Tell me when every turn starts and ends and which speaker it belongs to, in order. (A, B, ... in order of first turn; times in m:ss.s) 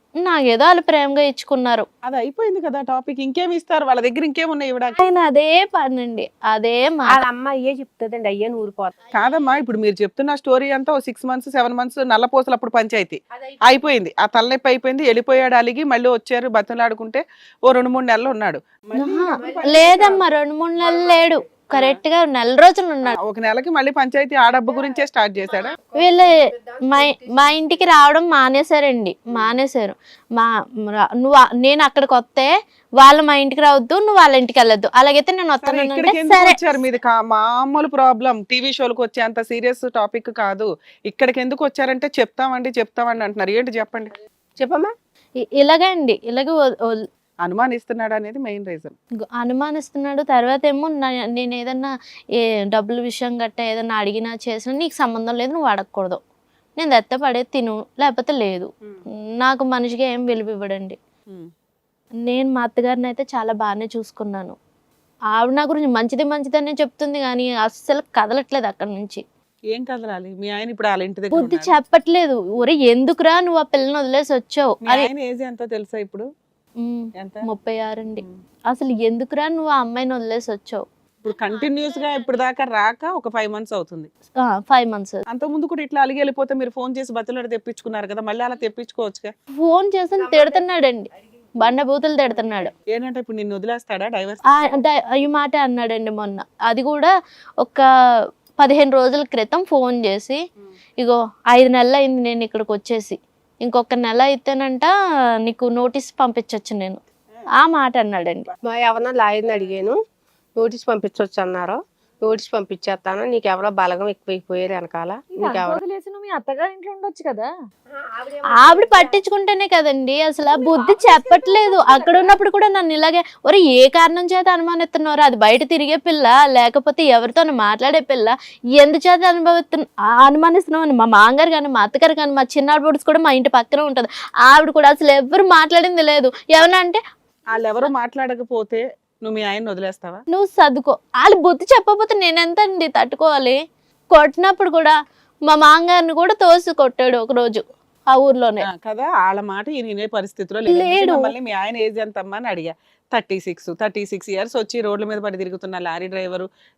0:00.2-0:01.9 A
0:02.0-0:05.0 B
0:05.0-0:07.1 A
0:07.1-0:09.0 C
0:09.1-0:20.2 B
0:18.9-0:23.2 A
0:19.4-0:20.1 C
0:23.1-0:25.7 B
0:25.7-0:27.5 C
0:26.0-0:26.3 A
0:26.9-0:36.6 A
0:35.6-0:44.1 B
0:44.6-0:44.9 C
0:45.4-0:47.0 A
0:47.4-0:48.9 B
0:49.3-0:51.9 A
0:52.7-0:56.2 A
0:56.8-0:58.7 A
0:59.4-1:01.0 A
1:02.3-1:04.6 A
1:05.3-1:09.2 A
1:09.7-1:11.7 B
1:11.3-1:15.1 A
1:14.8-1:16.3 B
1:16.8-1:20.8 A
1:17.2-1:17.5 B
1:21.2-1:24.1 B
1:24.4-1:25.2 A
1:25.3-1:29.3 B
1:29.6-1:31.1 A
1:30.2-1:30.6 C
1:31.6-1:32.7 A
1:32.9-1:34.5 B
1:34.5-1:37.1 A
1:38.6-1:40.4 A
1:41.0-1:44.9 A
1:45.4-1:47.0 A
1:47.6-1:48.5 A
1:48.7-1:50.0 C
1:50.6-1:55.8 C
1:55.3-1:57.5 D
1:57.9-1:59.2 C
1:58.6-2:17.0 A
2:00.6-2:02.3 D
2:17.5-2:20.2 B
2:20.3-2:23.6 A
2:24.1-2:24.9 A
2:25.5-2:28.6 A
2:28.7-2:36.5 B
2:30.7-2:31.3 A